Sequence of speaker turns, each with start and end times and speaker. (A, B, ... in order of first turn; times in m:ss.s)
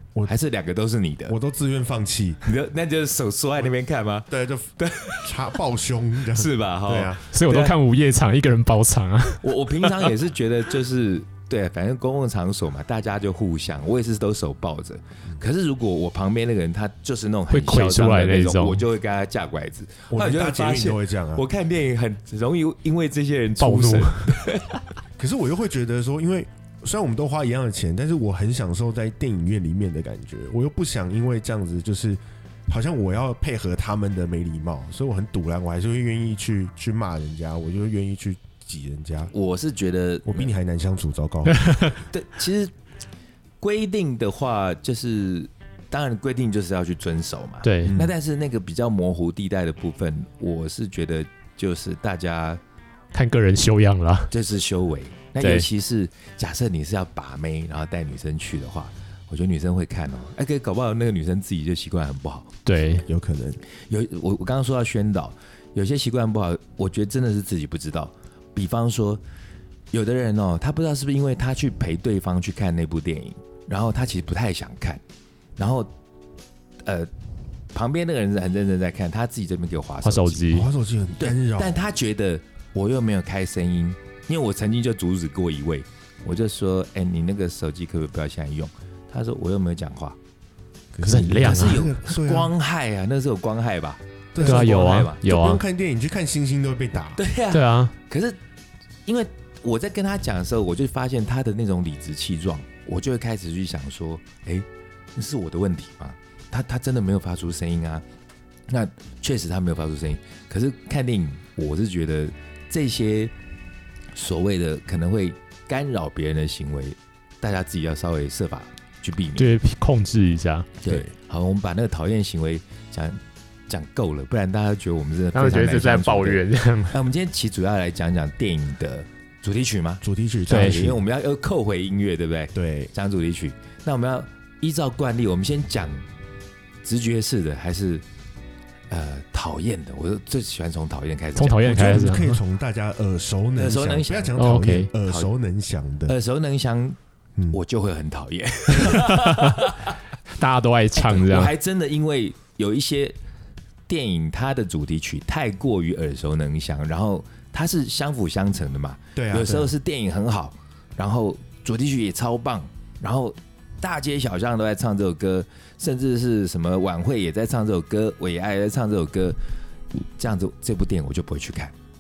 0:00.3-0:01.4 A
0:01.3-0:02.4 B
0:02.4-0:05.5 A
0:04.3-0:07.2 B
0:06.3-0:07.8 A
0:07.3-0:10.1 C
0:09.4-0:24.8 A
0:17.5-0:18.8 C
0:20.1-0:21.4 B
0:23.6-0:24.4 C
0:25.2-0:39.3 B
0:39.3-0:40.5 A
0:40.3-0:41.7 B
0:41.5-0:41.9 C
0:42.1-0:42.7 A
0:43.6-0:52.6 A
0:47.6-0:48.0 C
0:47.8-0:48.1 B
0:53.1-0:54.3 C
0:54.3-1:02.6 A
0:55.4-0:55.7 C
1:02.6-1:03.0 C
1:03.0-1:03.6 B
1:03.9-1:09.2 A
1:09.9-1:15.0 A
1:15.6-1:15.9 A
1:16.8-1:17.1 A
1:17.7-1:20.6 A
1:20.0-1:20.7 C
1:20.5-1:21.8 B
1:21.2-1:30.2 A
1:30.9-1:32.5 B
1:31.0-1:31.9 C
1:31.3-1:35.2 A
1:34.3-1:37.2 B
1:34.4-1:35.6 C
1:37.2-1:38.4 A
1:37.5-1:37.9 C
1:39.1-1:48.0 A
1:48.7-1:53.3 A
1:54.1-1:59.6 A
1:59.4-2:00.7 C
2:00.8-2:16.0 A
2:05.3-2:07.0 C
2:10.0-2:11.0 B
2:10.5-2:10.8 C
2:12.5-2:12.9 B
2:16.8-2:18.0 A
2:18.9-2:22.1 A
2:21.4-2:22.4 C
2:21.6-2:26.1 B
2:23.6-2:24.4 A
2:24.4-2:24.9 C
2:26.1-2:27.0 A
2:27.5-2:30.0 A
2:28.7-2:29.6 C
2:30.4-2:31.5 C
2:31.0-2:33.2 A
2:33.9-2:49.4 A
2:39.2-2:39.7 B
2:50.2-2:51.7 A